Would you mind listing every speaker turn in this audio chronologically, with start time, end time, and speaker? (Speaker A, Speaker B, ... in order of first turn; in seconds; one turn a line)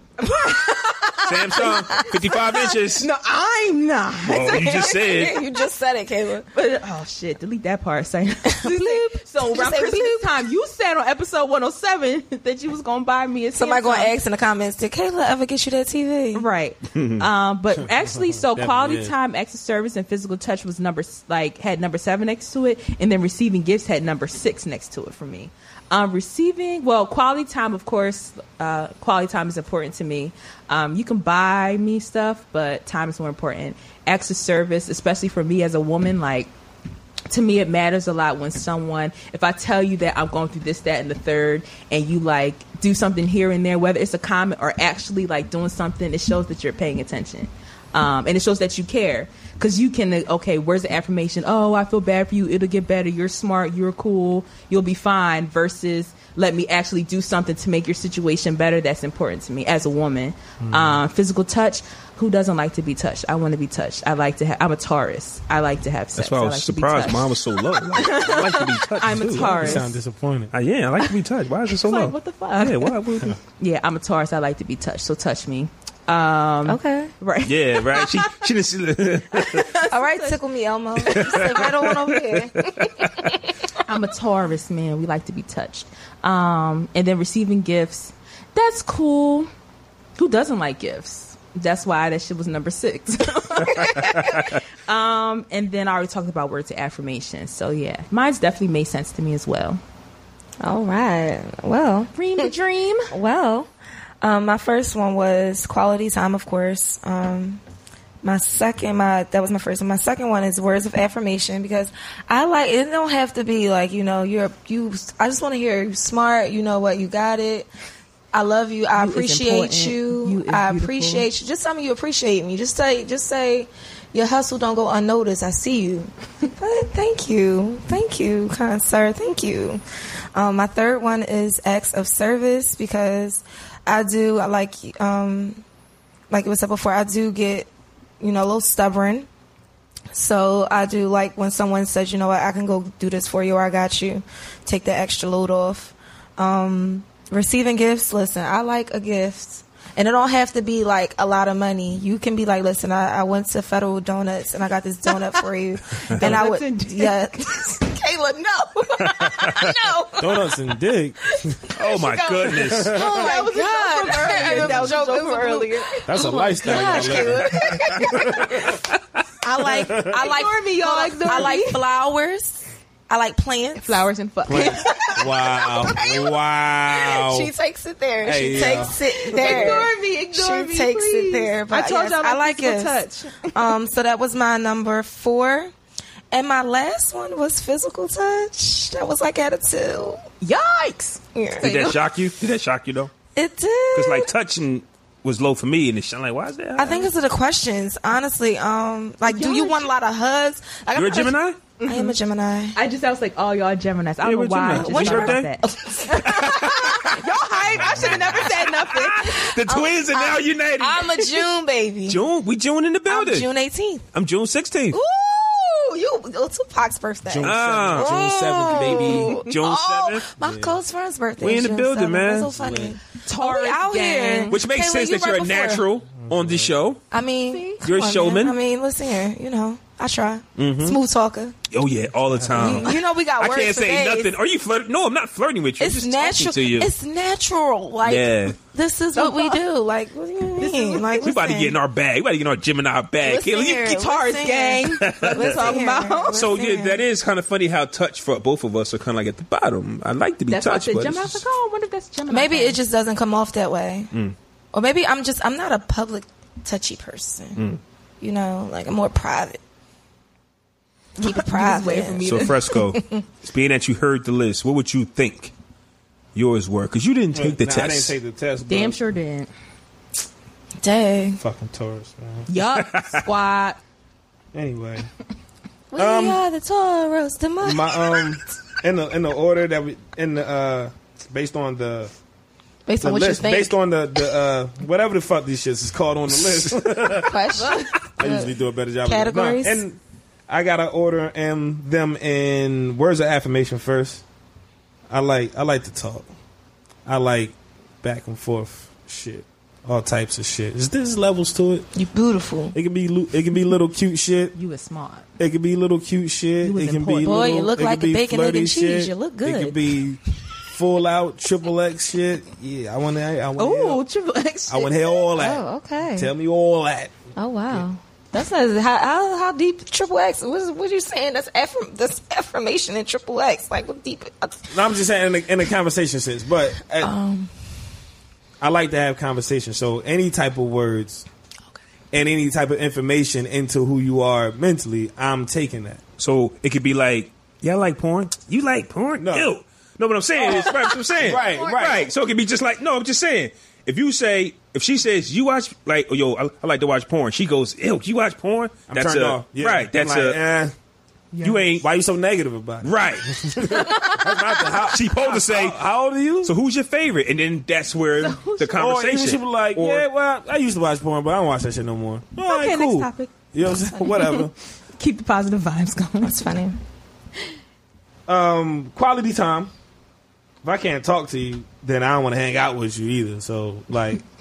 Speaker A: 0.2-5.4
Speaker B: 1.2-3.1
Speaker C: 1.6-2.0
Speaker B: 4.2-5.4
Speaker C: 4.4-6.5
Speaker A: 6.5-14.2
Speaker C: 8.5-10.2
Speaker C: 13.6-16.5
Speaker A: 16.3-36.5
Speaker B: 16.9-17.3
Speaker D: 17.9-19.1
Speaker A: 37.3-70.0
Speaker D: 60.6-61.0
Speaker B: 66.2-69.8
Speaker D: 69.3-70.5
Speaker B: 70.5-73.4
Speaker A: 71.7-78.4
Speaker C: 76.7-77.1
Speaker B: 77.5-79.7
Speaker A: 79.3-80.4
Speaker C: 79.9-83.6
Speaker A: 81.1-81.6
Speaker B: 81.2-83.2
Speaker A: 83.8-89.5
Speaker A: 90.2-99.8
Speaker B: 94.0-94.4
Speaker C: 100.6-102.5
Speaker A: 102.2-103.1
Speaker C: 103.1-103.7
Speaker C: 104.2-107.6
Speaker C: 108.2-117.7
Speaker C: 118.3-129.8
Speaker A: 119.0-121.3
Speaker C: 130.3-135.6
Speaker C: 136.3-137.7
Speaker C: 138.2-139.3
Speaker C: 140.1-160.5
Speaker A: 156.2-157.3
Speaker B: 159.0-159.8
Speaker D: 160.2-161.6
Speaker C: 161.5-168.8
Speaker B: 161.8-163.0
Speaker A: 162.1-168.6
Speaker D: 162.6-163.3
Speaker D: 164.4-164.9
Speaker D: 166.1-168.6
Speaker C: 169.4-176.4
Speaker D: 169.7-170.2
Speaker A: 169.9-171.8
Speaker A: 173.8-175.2
Speaker D: 174.5-177.5
Speaker C: 176.9-185.7
Speaker D: 178.2-179.8
Speaker A: 179.2-183.7
Speaker C: 186.3-190.2
Speaker A: 190.4-192.0
Speaker C: 191.3-192.0
Speaker B: 191.6-193.1
Speaker C: 193.3-194.3
Speaker B: 193.9-197.1
Speaker C: 196.8-202.8
Speaker A: 199.3-199.9
Speaker B: 200.9-201.6
Speaker A: 201.8-202.2
Speaker A: 202.7-209.4
Speaker B: 204.2-205.5
Speaker C: 204.8-208.5
Speaker B: 206.2-207.2
Speaker B: 207.8-211.4
Speaker C: 209.2-212.2
Speaker B: 212.1-213.5
Speaker C: 213.1-214.0
Speaker B: 214.1-215.0
Speaker C: 214.9-225.8
Speaker D: 217.2-219.4
Speaker B: 217.4-220.4
Speaker D: 220.4-220.8
Speaker B: 221.4-222.6
Speaker D: 222.5-223.0
Speaker A: 223.3-224.6
Speaker B: 224.5-227.0
Speaker D: 226.2-226.7
Speaker C: 227.1-231.6
Speaker A: 227.5-227.8
Speaker B: 227.8-228.6
Speaker B: 230.6-231.0
Speaker B: 231.7-236.9
Speaker D: 232.4-232.8
Speaker C: 232.5-234.3
Speaker C: 235.8-241.8
Speaker B: 238.1-238.6
Speaker A: 239.2-239.6
Speaker A: 240.6-241.2
Speaker B: 241.2-244.0
Speaker C: 243.2-247.0
Speaker A: 243.8-246.5
Speaker B: 245.0-245.7
Speaker B: 246.3-251.4
Speaker A: 250.5-252.8
Speaker C: 252.3-254.1
Speaker C: 254.7-257.6
Speaker C: 258.2-259.6
Speaker A: 261.2-262.8
Speaker C: 261.2-263.2
Speaker B: 262.2-265.5
Speaker B: 266.4-268.2
Speaker D: 267.3-269.0
Speaker A: 268.7-269.5
Speaker C: 270.8-271.4
Speaker D: 271.4-272.5
Speaker A: 272.5-273.8
Speaker B: 272.6-273.2
Speaker D: 274.5-275.1
Speaker C: 275.9-278.3
Speaker D: 275.9-276.4
Speaker D: 277.6-282.1
Speaker C: 282.9-283.7
Speaker D: 283.0-287.4
Speaker C: 287.1-288.5
Speaker A: 287.6-287.9
Speaker D: 288.2-294.2
Speaker C: 289.1-289.8
Speaker D: 295.1-296.3
Speaker D: 297.1-301.9
Speaker C: 301.9-302.8
Speaker D: 302.7-304.6
Speaker A: 304.5-305.3
Speaker D: 305.4-314.0
Speaker A: 306.6-307.6
Speaker C: 307.2-309.8
Speaker A: 313.6-315.2
Speaker D: 314.7-317.2
Speaker C: 315.4-316.3
Speaker C: 317.4-324.7
Speaker D: 324.7-327.1
Speaker C: 327.0-327.5
Speaker D: 328.6-331.3
Speaker D: 332.1-336.0
Speaker B: 336.2-350.4
Speaker D: 339.2-339.5
Speaker D: 340.4-342.1
Speaker A: 340.5-342.0
Speaker D: 348.9-350.8
Speaker A: 351.3-351.7
Speaker B: 351.4-351.9
Speaker D: 351.7-356.5
Speaker B: 352.8-353.7
Speaker A: 353.7-354.4
Speaker B: 354.9-355.8
Speaker B: 356.4-360.1
Speaker A: 358.2-358.8
Speaker D: 358.7-364.5
Speaker A: 362.4-363.3
Speaker A: 364.0-364.5
Speaker A: 365.0-366.5
Speaker C: 366.2-366.8
Speaker D: 368.3-369.7
Speaker D: 370.6-374.2